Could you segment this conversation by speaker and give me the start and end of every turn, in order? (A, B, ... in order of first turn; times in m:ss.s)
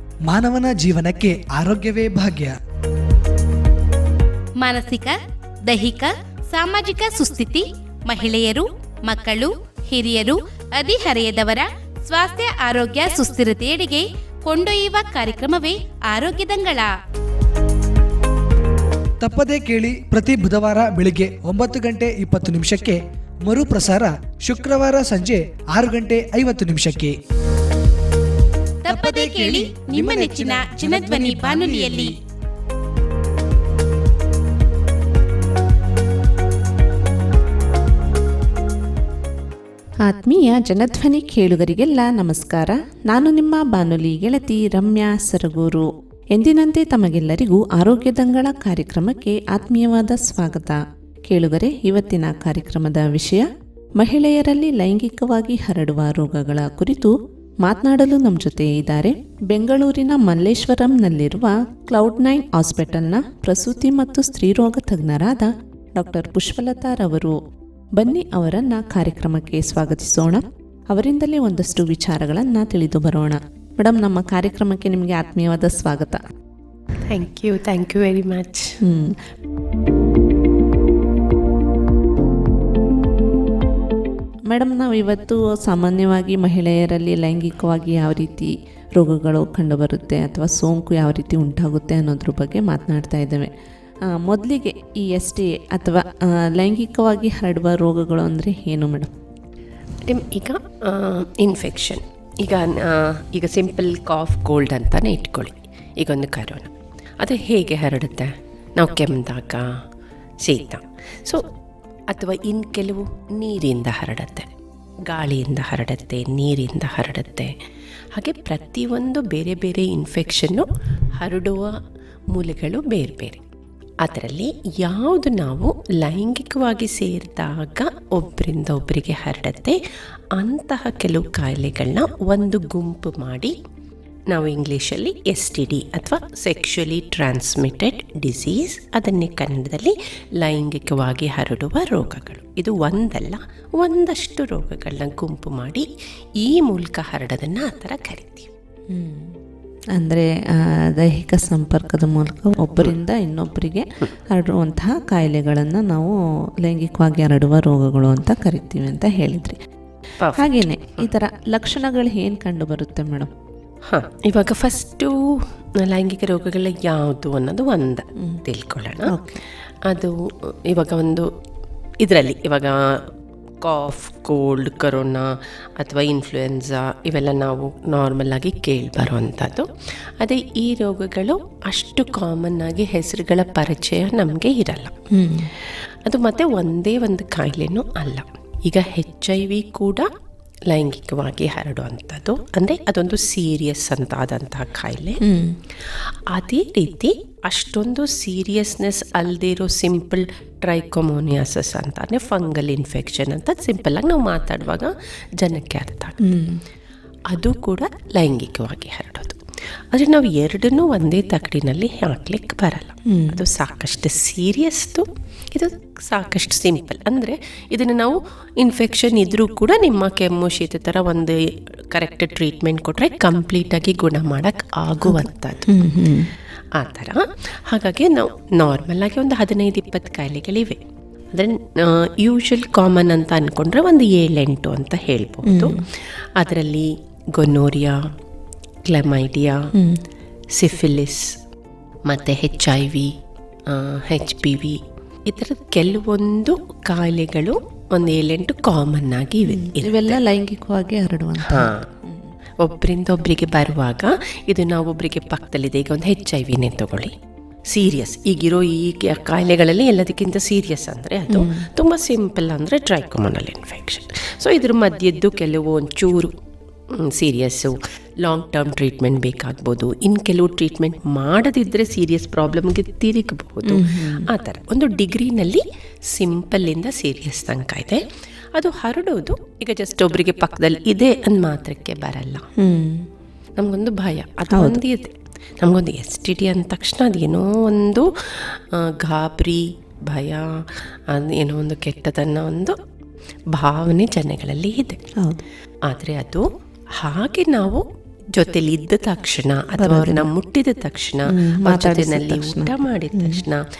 0:00.2-0:02.6 A
0:04.6-0:16.9 B
0:19.2-0:27.2 A
0:28.8-0:32.1 B
0:28.9-0:32.1 A
0:40.0-1:07.4 C
1:07.9-1:16.2 C
1:17.1-1:18.8 D
1:18.8-1:19.2 C
1:24.5-1:33.5 C
1:34.0-1:39.1 C
1:40.0-1:49.8 D
1:50.4-1:51.4 D
1:52.1-1:54.5 D
1:55.0-1:57.6 D
1:58.1-2:00.7 D
2:01.2-2:01.8 D
2:02.3-2:03.4 D
2:04.0-2:09.8 D
2:10.3-2:13.5 D
2:14.3-2:25.9 D
2:26.4-2:28.5 D
2:28.9-2:29.4 C
2:29.9-2:39.6 C
2:40.2-2:41.1 D
2:40.4-2:43.3 C
2:43.9-2:49.2 D
2:49.1-2:49.4 C
2:49.8-2:51.3 D
2:52.0-2:53.1 D
2:53.6-2:59.7 D
3:00.2-3:05.0 D
3:05.1-3:05.5 C
3:06.0-3:10.1 D
3:10.7-3:15.2 D
3:15.2-3:15.6 C
3:15.9-3:26.2 D
3:26.2-3:26.6 C
3:27.3-3:29.4 D
3:29.9-3:45.7 D
3:33.1-3:33.4 C
3:45.0-3:46.3 C
3:46.7-3:50.8 D
3:51.3-3:58.0 D
3:55.4-3:55.8 C
3:58.8-3:59.7 D
3:59.7-4:00.0 C
4:00.5-4:01.4 D
4:02.0-4:03.1 D
4:03.7-4:10.2 D
4:09.5-4:12.3 C
4:11.4-4:11.9 D
4:12.6-4:17.1 D
4:17.7-4:26.3 D
4:21.3-4:21.7 C
4:26.9-4:38.0 D
4:33.6-4:34.3 C
4:38.5-4:42.5 D
4:42.6-4:43.1 C
4:43.6-4:52.8 D
4:44.5-4:44.8 C
4:53.5-4:55.0 D
4:55.2-4:55.4 C
4:55.8-4:56.4 D
4:57.0-5:03.6 D
4:59.8-5:00.3 C
5:01.3-5:03.4 C